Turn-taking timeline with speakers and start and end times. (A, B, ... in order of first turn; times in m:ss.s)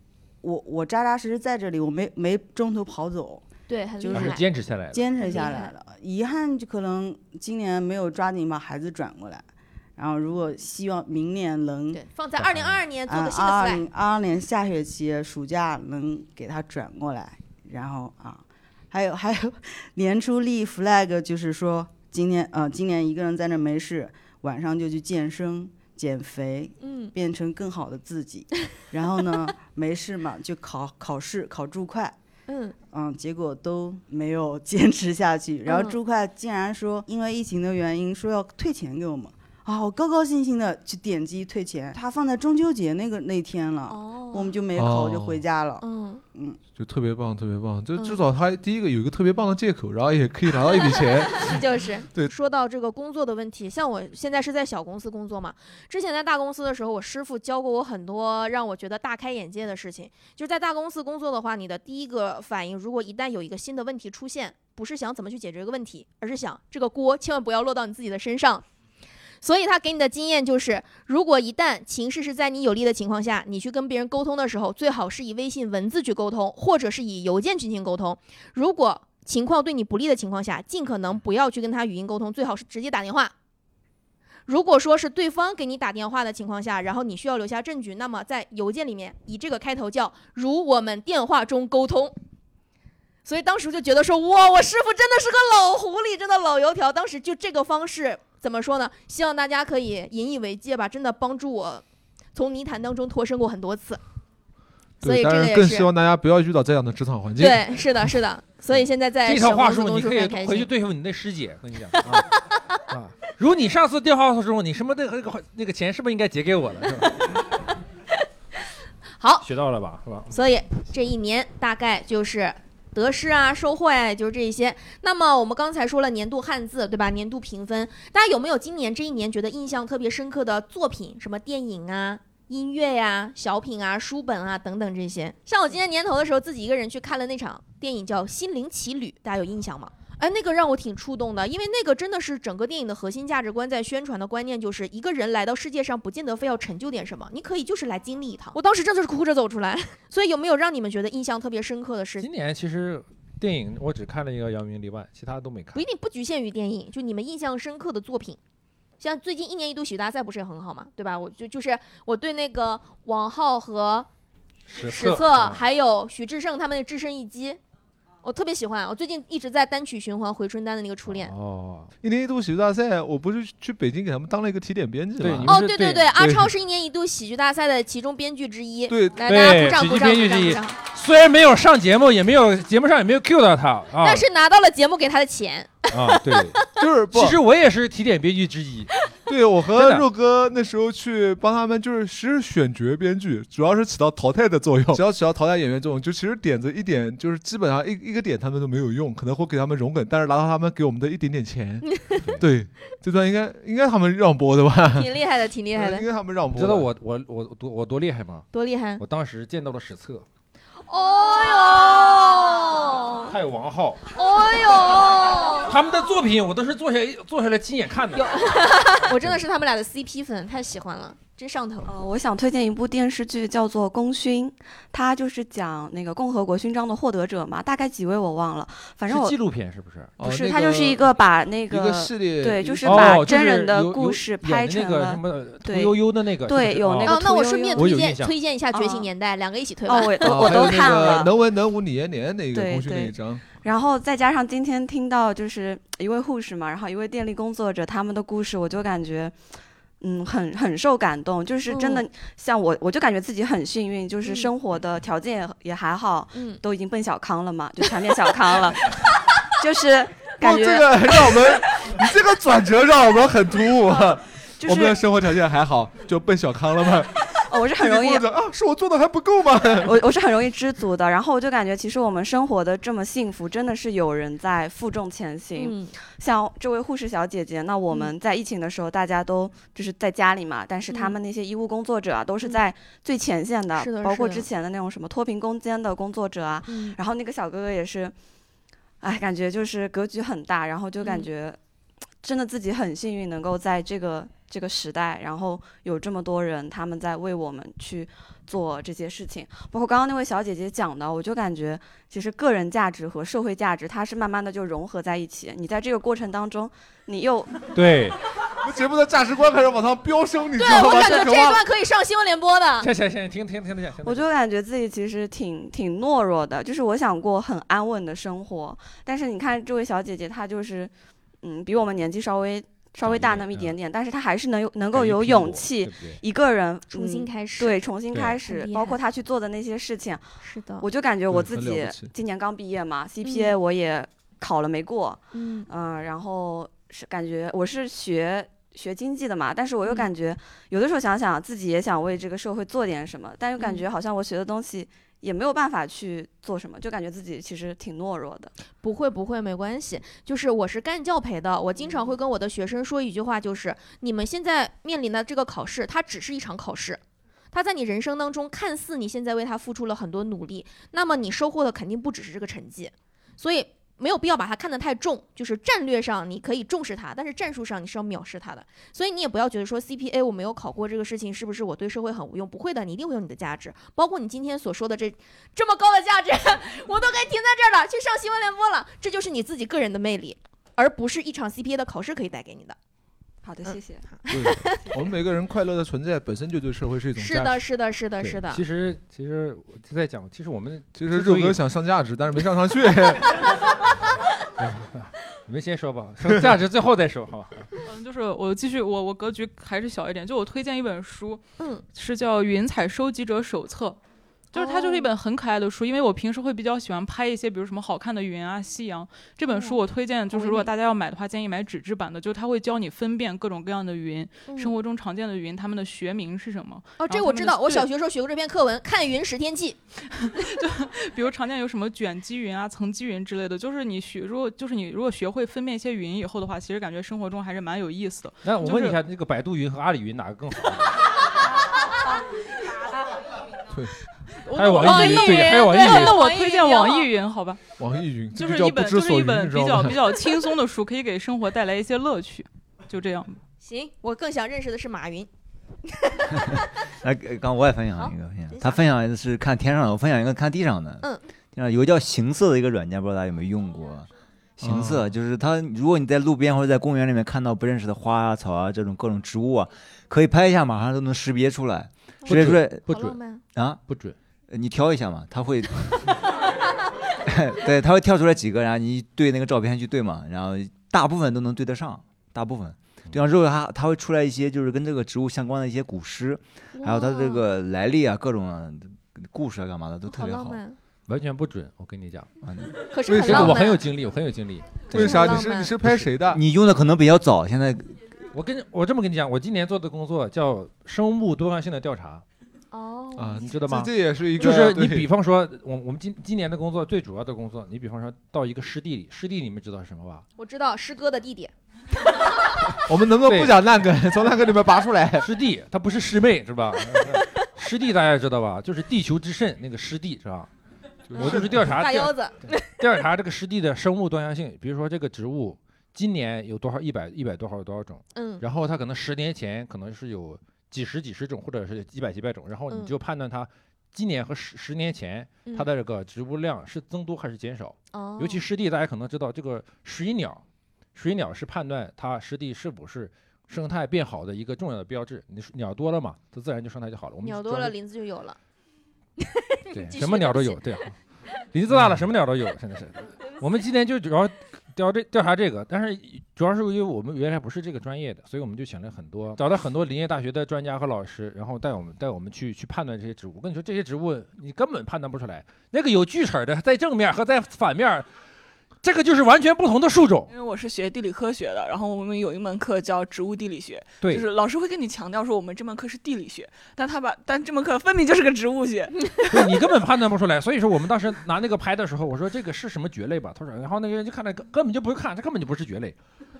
0:00.4-0:03.4 A
0:03.7-0:04.4 B
0:04.0-0:04.4 A
0:04.1-0:05.1 C
0:04.9-0:09.5 A
0:05.2-0:05.7 B
0:10.0-0:12.0 A
0:11.9-0:13.8 B
0:12.4-0:12.8 C
0:13.1-0:32.2 A
0:26.8-0:27.2 B
0:32.5-0:32.8 B
0:32.9-0:45.8 A
0:35.7-0:36.0 B
0:43.9-0:44.6 B
0:44.8-0:45.4 D
0:45.8-0:46.2 B
0:46.8-0:51.6 D
0:48.0-0:48.2 B
0:50.7-1:08.6 B
1:09.4-1:23.3 B
1:24.5-1:32.2 B
1:33.2-1:41.8 B
1:42.4-1:44.0 B
1:45.0-1:45.9 B
1:45.0-1:47.8 D
1:47.4-1:50.7 B
1:49.2-1:52.3 C
1:52.9-1:57.2 C
1:59.2-1:59.5 B
1:59.4-2:00.3 C
2:00.3-2:32.3 B
2:32.2-2:35.8 C
2:35.7-2:38.4 B
2:39.0-2:44.1 B
2:44.7-2:45.6 C
2:44.8-2:47.6 B
2:48.2-2:51.3 B
2:51.1-2:51.9 C
2:52.0-2:55.6 D
2:55.2-2:56.1 C
2:55.5-3:00.8 B
2:56.2-2:56.5 D
2:58.9-2:59.2 D
2:59.2-3:04.2 C
3:04.0-3:06.4 B
3:05.9-3:08.9 C
3:06.8-3:07.4 D
3:09.3-3:21.9 D
3:09.8-3:10.1 C
3:21.9-3:22.2 B
3:22.4-3:25.1 D
3:24.9-3:26.1 B
3:25.7-3:26.9 D
3:26.5-3:28.5 C
3:28.5-3:29.0 B
3:29.0-3:30.3 C
3:30.9-3:33.3 B
3:33.3-3:34.0 C
3:34.1-3:35.7 B
3:35.7-3:38.5 C
3:38.2-3:41.9 B
3:39.1-3:39.4 C
3:41.9-3:49.4 E
3:49.1-3:50.2 C
3:50.2-3:51.2 D
3:50.2-3:57.9 E
3:51.7-3:53.3 D
3:52.8-3:57.2 C
3:57.0-4:00.8 B
3:57.8-3:58.3 C
3:58.7-3:59.1 E
3:59.9-4:01.3 E
4:00.2-4:03.4 D
4:02.5-4:09.4 E
4:10.0-4:19.0 E
4:11.7-4:12.0 B
4:14.2-4:14.5 B
4:16.3-4:16.6 B
4:19.6-4:21.5 E
4:20.4-4:27.2 D
4:24.6-4:25.0 E
4:27.5-4:28.3 E
4:27.8-4:30.0 D
4:29.8-4:48.1 E
4:35.6-4:35.9 B
4:40.9-4:41.2 B
4:43.8-4:44.5 B
4:46.7-4:47.0 B
4:49.0-4:51.6 E
4:52.2-5:07.6 E
5:07.7-5:08.2 C
5:08.6-5:11.6 D
5:10.6-5:12.9 B
5:12.8-5:14.3 C
5:14.0-5:20.9 E
5:21.4-5:30.2 E
5:23.0-5:23.8 C
5:24.9-5:26.2 C
5:26.9-5:27.8 B
5:28.1-5:28.4 C
5:28.4-5:29.0 B
5:30.4-5:30.9 B
5:30.8-5:48.5 E
5:31.3-5:32.1 D
5:33.2-5:33.5 B
5:35.3-5:35.7 B
5:43.6-5:43.9 B
5:48.8-5:57.0 B
5:57.5-6:22.8 B
6:23.4-6:24.1 E
6:23.6-6:24.8 B
6:24.3-6:27.6 D
6:27.2-6:28.6 B
6:28.2-6:31.6 C
6:31.0-6:33.2 D
6:34.6-6:37.7 C
6:37.9-6:44.0 F
6:41.6-6:41.8 B
6:44.5-6:57.9 F
6:44.6-6:45.1 B
6:49.5-6:50.7 B
6:54.5-6:54.8 B
6:57.0-6:59.8 B
7:00.2-7:09.0 F
7:08.4-7:10.9 C
7:14.5-7:17.6 F
7:14.6-7:16.2 C
7:14.7-7:17.1 B
7:17.8-7:20.2 D
7:18.3-7:23.4 F
7:23.6-7:25.3 B
7:26.5-7:34.1 G
7:28.0-7:28.8 B
7:34.6-7:42.8 G
7:34.6-7:35.1 C
7:42.2-7:43.4 B
7:42.3-7:43.2 C
7:43.5-7:43.8 G
7:43.9-7:44.2 C
7:44.5-7:45.7 G
7:47.3-8:00.6 G
7:56.8-7:57.5 B
8:00.1-8:00.8 B
8:01.1-8:02.3 C
8:02.4-8:02.7 G
8:02.9-8:03.9 B
8:03.1-8:03.6 D
8:03.2-8:05.3 C
8:04.9-8:06.4 D
8:04.9-8:05.8 B
8:06.2-8:07.9 G
8:08.3-8:12.2 C
8:12.7-8:13.5 B
8:13.2-8:15.1 D
8:13.4-8:20.2 C
8:20.4-8:21.5 B
8:22.9-8:25.3 D
8:23.3-8:23.6 C
8:25.2-8:30.5 C
8:31.1-8:31.6 D
8:31.1-8:50.4 C
8:31.1-8:32.7 B
8:38.1-8:38.4 B
8:47.9-8:48.4 B
8:51.0-8:57.7 C
8:57.2-8:58.4 B
8:59.3-9:00.6 B
8:59.7-9:01.0 C
9:01.5-9:18.1 C
9:18.8-9:20.3 C
9:20.3-9:29.1 H
9:24.0-9:24.3 C
9:29.3-9:36.0 C